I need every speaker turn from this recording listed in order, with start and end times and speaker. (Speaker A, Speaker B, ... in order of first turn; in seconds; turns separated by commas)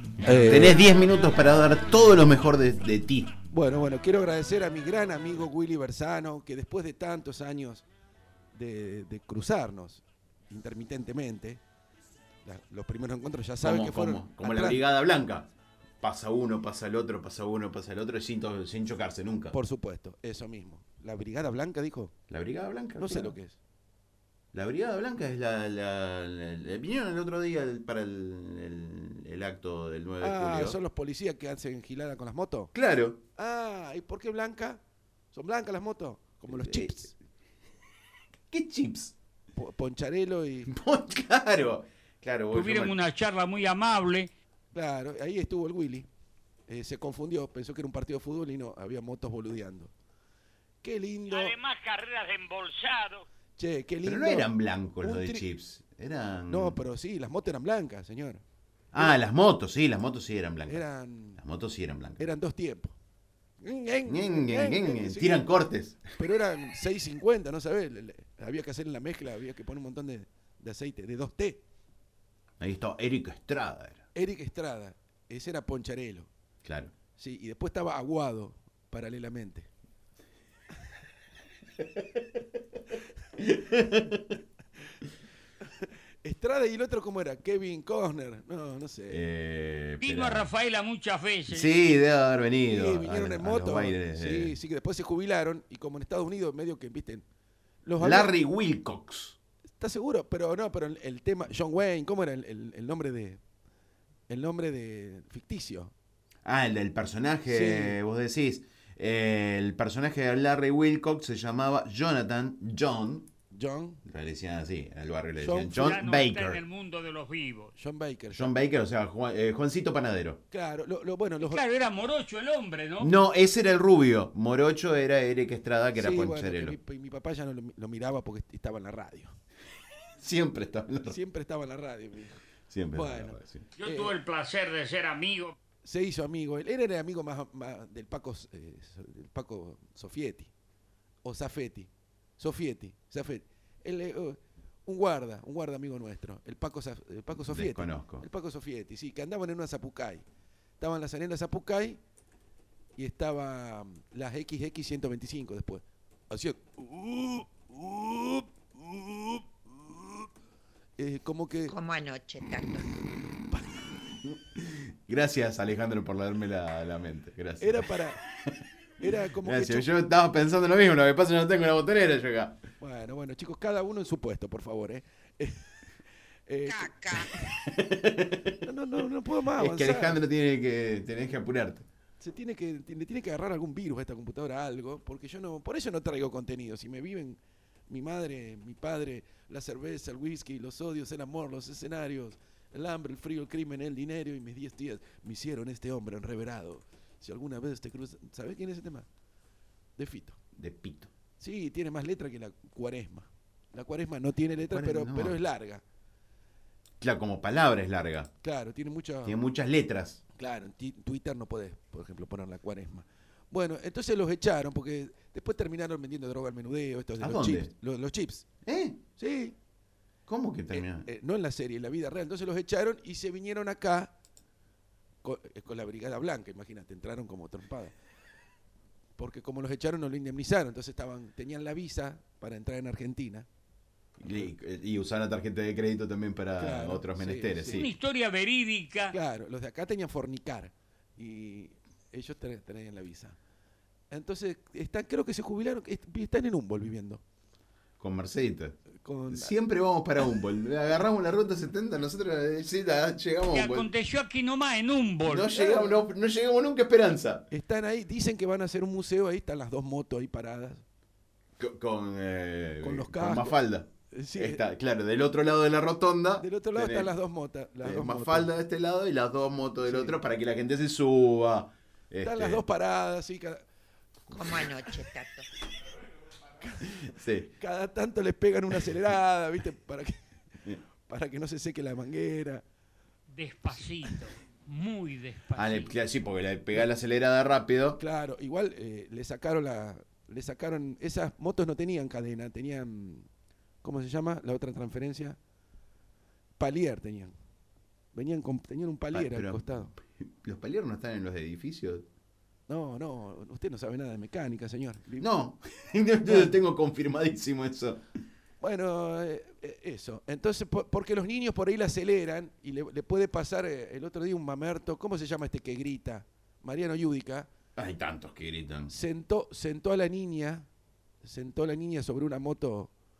Speaker A: 0.2-0.8, Speaker B: 0.3-3.3, Speaker A: 3.5-7.8, Speaker A: 8.5-11.6, Speaker A: 12.4-14.8, Speaker B: 13.6-15.5, Speaker B: 16.0-19.5, Speaker A: 19.5-22.1, Speaker B: 22.3-23.4, Speaker A: 23.0-23.6, Speaker B: 24.5-30.8, Speaker A: 30.2-32.7, Speaker B: 32.7-33.2, Speaker A: 33.4-34.8, Speaker A: 35.3-37.1, Speaker B: 36.5-37.1, Speaker B: 38.5-39.1, Speaker A: 39.5-40.7, Speaker B: 40.7-43.0, Speaker C: 42.5-44.3, Speaker A: 44.7-46.1, Speaker A: 46.7-49.9, Speaker A: 50.8-51.5, Speaker C: 51.3-53.2, Speaker A: 53.6-55.5, Speaker B: 54.0-56.8, Speaker A: 56.5-58.4, Speaker B: 58.9-60.8, Speaker A: 60.7-61.4, Speaker B: 61.4-62.3, Speaker A: 62.2-63.0, Speaker A: 63.6-65.5, Speaker B: 64.0-66.0, Speaker A: 66.2-71.6, Speaker B: 72.6-74.0, Speaker A: 74.1-76.3, Speaker B: 76.6-76.9, Speaker A: 77.2-79.7, Speaker B: 83.4-84.3, Speaker A: 85.8-89.2, Speaker B: 89.1-90.5, Speaker C: 90.0-91.7, Speaker B: 91.5-94.5, Speaker A: 92.7-97.2, Speaker A: 97.8-98.3, Speaker B: 98.0-99.4, Speaker A: 99.8-103.4, Speaker A: 104.3-105.9, Speaker B: 106.4-113.3, Speaker A: 107.5-108.0, Speaker A: 113.5-114.0, Speaker B: 114.0-116.6, Speaker A: 115.4-115.9, Speaker C: 115.7-117.7, Speaker A: 117.7-118.5, Speaker B: 118.3-120.4, Speaker A: 120.5-121.6, Speaker C: 121.4-123.1, Speaker B: 123.0-126.8, Speaker A: 125.9-129.4, Speaker B: 130.2-131.2, Speaker A: 131.1-134.2, Speaker B: 132.7-133.7, Speaker C: 133.8-135.6, Speaker A: 135.8-140.5, Speaker A: 141.2-150.2, Speaker B: 147.3-148.2, Speaker A: 150.8-152.0, Speaker A: 152.9-160.3, Speaker A: 161.0-161.7, Speaker D: 161.7-162.9, Speaker A: 163.5-163.8, Speaker B: 164.5-167.9, Speaker A: 167.6-168.2, Speaker A: 169.0-169.9, Speaker B: 169.4-172.6, Speaker A: 172.8-175.8, Speaker A: 176.5-177.5, Speaker D: 176.7-177.3, Speaker B: 177.4-178.6, Speaker A: 178.6-180.2, Speaker B: 179.5-181.8, Speaker A: 182.2-199.1, Speaker A: 200.0-200.4, Speaker B: 200.6-201.1, Speaker A: 201.4-205.8, Speaker B: 204.7-205.4, Speaker B: 207.0-208.3, Speaker A: 208.4-209.4, Speaker B: 209.2-210.2, Speaker A: 210.4-218.4, Speaker B: 217.2-217.7, Speaker B: 218.6-219.0, Speaker A: 219.2-219.6, Speaker B: 220.3-221.1, Speaker A: 220.7-224.1, Speaker A: 225.2-227.9, Speaker A: 229.2-233.5, Speaker B: 234.2-237.9, Speaker A: 236.6-237.9, Speaker C: 237.7-239.1, Speaker A: 239.1-243.4, Speaker A: 244.1-247.2, Speaker B: 248.0-248.8, Speaker A: 248.9-249.5, Speaker B: 249.3-253.9, Speaker C: 253.5-255.5, Speaker B: 255.2-257.5, Speaker A: 255.5-256.0, Speaker A: 257.5-260.8, Speaker B: 261.6-267.1, Speaker A: 262.8-263.6, Speaker A: 264.1-264.6, Speaker A: 266.4-268.5, Speaker B: 267.8-272.6, Speaker A: 269.8-270.2, Speaker A: 272.2-273.6, Speaker D: 274.3-275.4, Speaker A: 276.6-282.6, Speaker B: 277.0-277.5, Speaker C: 283.3-285.9, Speaker B: 285.5-288.0, Speaker A: 288.0-293.3, Speaker A: 293.8-295.4, Speaker A: 296.6-297.3, Speaker A: 298.1-299.9, Speaker B: 299.1-302.1, Speaker A: 302.7-305.3, Speaker B: 305.2-308.1, Speaker A: 306.2-306.6, Speaker A: 308.6-317.5, Speaker B: 317.8-318.9, Speaker A: 318.9-320.7, Speaker A: 321.2-322.9